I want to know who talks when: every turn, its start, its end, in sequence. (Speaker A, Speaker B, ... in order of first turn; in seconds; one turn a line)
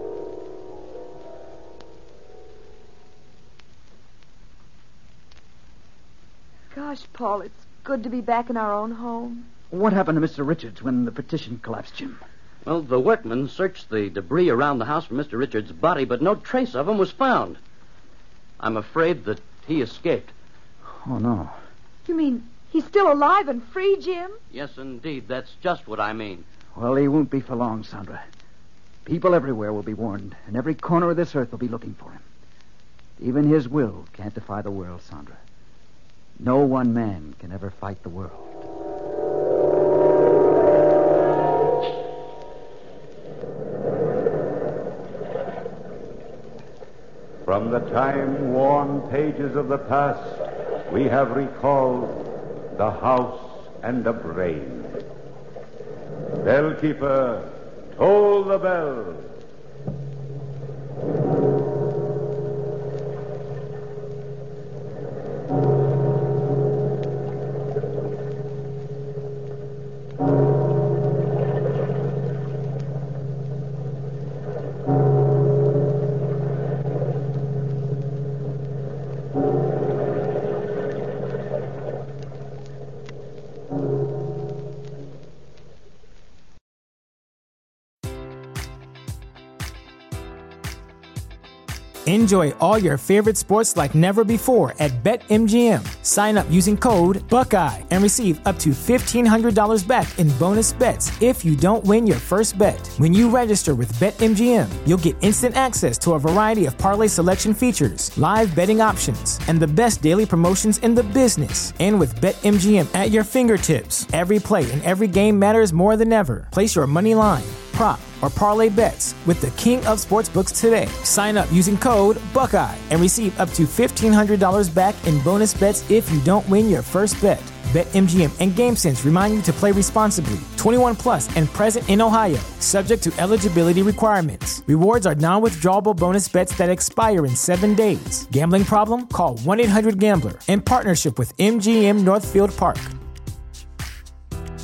Speaker A: 6.7-9.4
Speaker B: 9.7-12.2
Speaker C: 12.6-17.6
Speaker C: 18.6-20.3
Speaker B: 20.9-21.6
Speaker A: 22.1-24.4
Speaker C: 24.5-26.4
Speaker B: 26.7-28.2
Speaker B: 29.0-32.2
Speaker B: 33.2-35.4
Speaker B: 36.4-38.6
Speaker D: 47.4-55.0
Speaker D: 56.4-59.3
Speaker E: 92.0-142.9